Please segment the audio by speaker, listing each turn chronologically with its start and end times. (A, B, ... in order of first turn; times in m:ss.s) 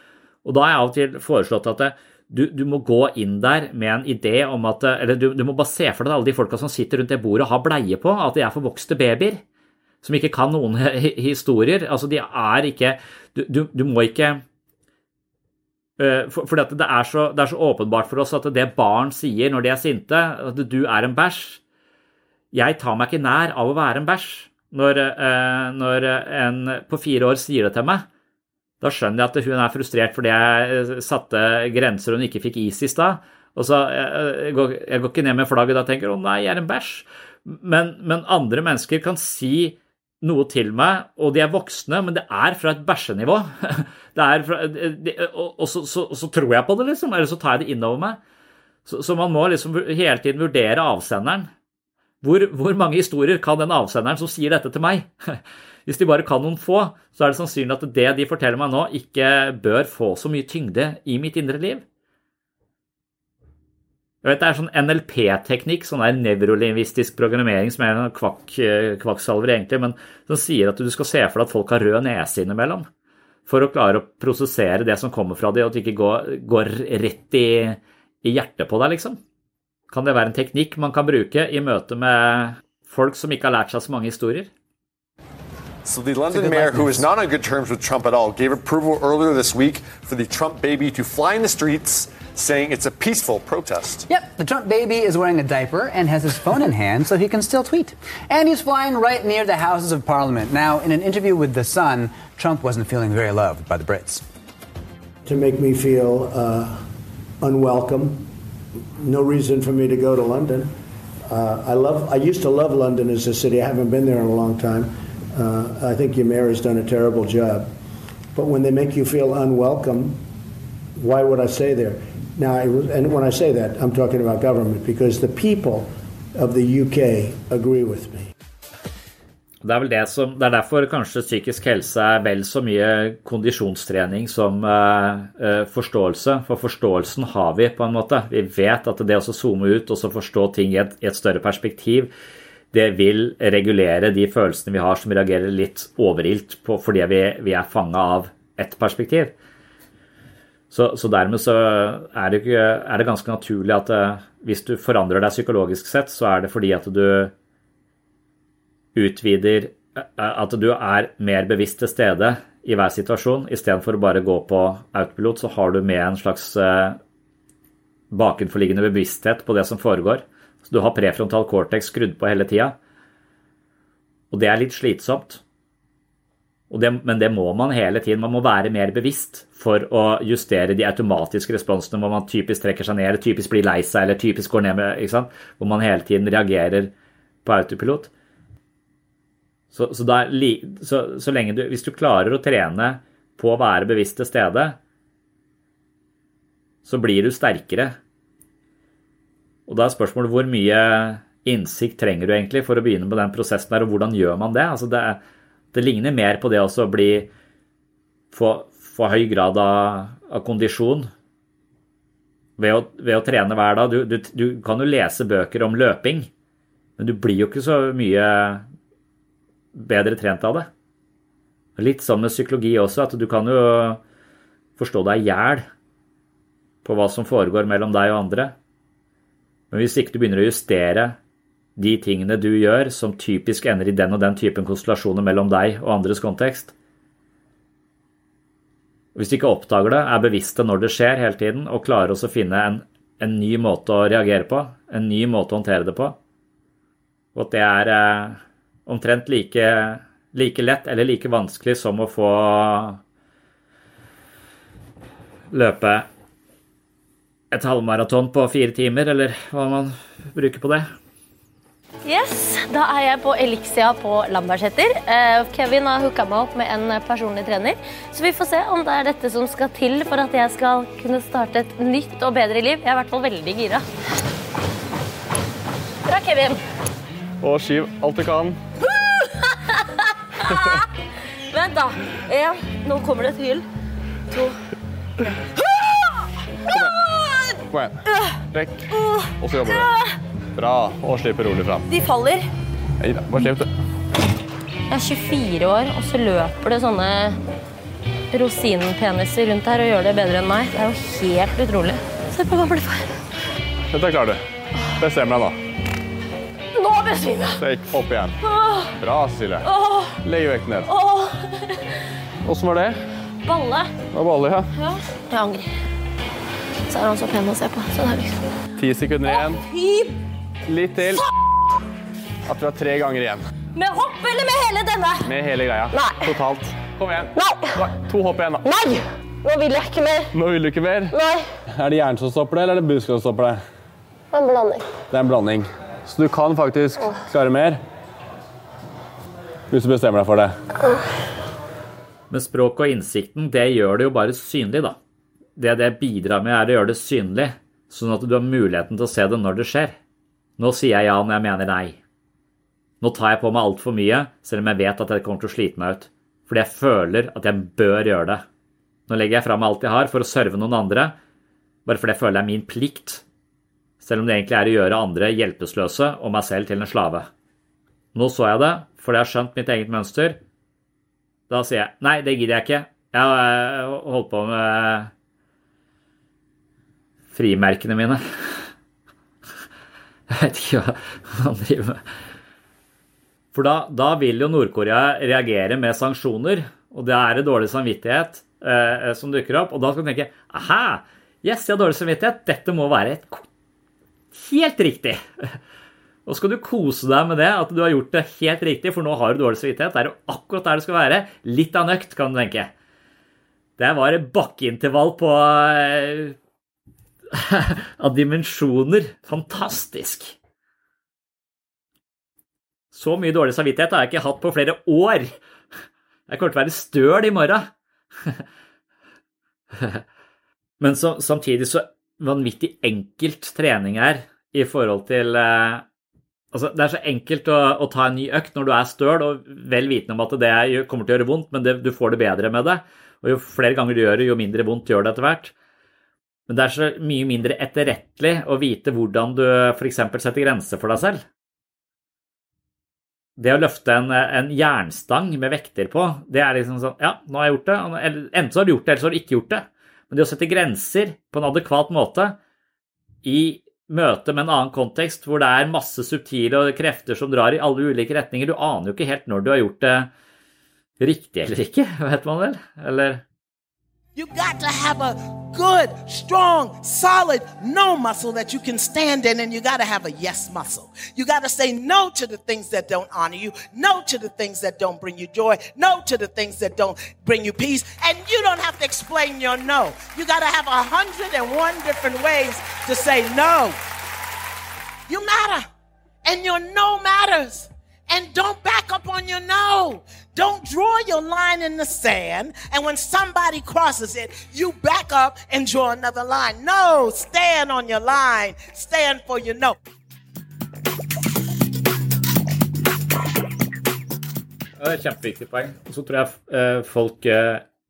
0:00.4-0:09.4 A
0:10.0-0:14.4 A
0:16.0-0:21.6 A
0:22.5-0:28.0 A
0:28.8-0:48.2 A
0:48.8-0:51.5 A
0:52.2-1:01.8 A
1:04.2-1:12.9 A
1:13.5-1:19.2 A
1:19.9-1:24.5 A
1:25.8-1:34.0 B
1:26.5-1:27.0 C
1:34.1-1:44.2 C
1:45.2-1:46.9 D
1:47.4-1:48.3 D
1:49.0-1:50.7 D
1:51.3-1:57.7 D
1:58.3-2:00.2 D
2:01.0-2:08.3 D
2:09.6-2:22.1 A
2:22.7-2:29.3 A
2:30.7-2:37.3 A
2:38.9-2:47.0 A
2:48.1-2:52.8 A
2:54.3-2:55.4 A
2:56.7-3:06.9 A
3:07.4-3:08.1 A
3:09.7-3:14.8 A
3:16.8-3:18.0 A
3:19.7-3:25.2 A
3:25.7-3:27.3 A
3:28.3-3:31.1 A
3:32.6-3:36.3 A
3:37.0-3:38.6 A
3:39.7-3:40.7 A
3:41.8-3:44.0 A
3:44.8-3:45.7 A
3:46.8-3:48.5 A
3:49.7-3:51.2 A
3:51.8-3:56.7 A
3:59.1-4:06.2 A
4:07.3-4:13.0 A
4:15.5-4:16.1 A
4:17.5-4:20.9 A
4:22.0-4:33.8 E
4:36.0-4:36.6 E
4:37.4-4:38.6 F
4:39.5-4:39.8 E
4:41.5-4:43.6 E
4:44.3-4:44.6 E
4:46.7-4:47.0 F
4:46.8-4:47.4 E
4:47.7-4:48.0 F
4:48.5-4:48.8 F
4:48.9-4:50.1 E
4:49.4-4:49.9 F
4:50.6-4:51.9 F
4:51.9-4:52.5 E
4:53.0-4:53.7 F
4:54.9-4:57.4 E
4:58.3-5:03.1 E
5:03.9-5:04.4 F
5:05.0-5:05.6 F
5:06.8-5:07.6 E
5:07.6-5:08.4 F
5:08.4-5:08.9 E
5:09.0-5:09.7 F
5:09.6-5:10.2 E
5:10.2-5:10.9 F
5:10.9-5:11.9 E
5:12.4-5:13.0 F
5:13.4-5:13.9 E
5:14.1-5:14.7 F
5:14.7-5:15.7 E
5:16.9-5:18.4 E
5:18.8-5:19.6 F
5:19.3-5:20.2 E
5:20.6-5:21.2 F
5:22.5-5:23.4 F
5:23.7-5:25.3 E
5:25.2-5:28.7 F
5:28.7-5:30.2 E
5:30.3-5:31.2 F
5:31.7-5:33.6 F
5:34.3-5:34.8 E
5:35.1-5:37.8 F
5:39.7-5:40.5 F
5:42.3-5:45.0 A
5:45.6-5:50.0 A
5:50.6-5:52.0 A
5:53.0-5:58.4 A
5:59.1-6:01.1 A
6:01.8-6:03.2 A
6:04.0-6:07.3 A
6:08.1-6:10.4 A
6:11.5-6:15.1 A
6:17.3-6:18.6 A
6:20.3-6:22.0 A
6:23.5-6:33.4 A
6:34.3-6:35.2 A
6:36.2-6:42.7 A
6:43.8-6:46.3 A
6:47.3-6:50.3 A
6:52.9-6:55.3 A
6:56.3-6:57.7 A
7:00.8-7:05.8 A
7:06.5-7:15.5 A
7:16.5-7:21.2 A
7:23.4-7:32.4 A
7:33.2-7:40.1 A
7:41.0-7:43.2 A
7:44.2-8:03.8 G
8:05.1-8:05.7 G
8:06.2-8:19.8 G
8:24.8-8:27.6 A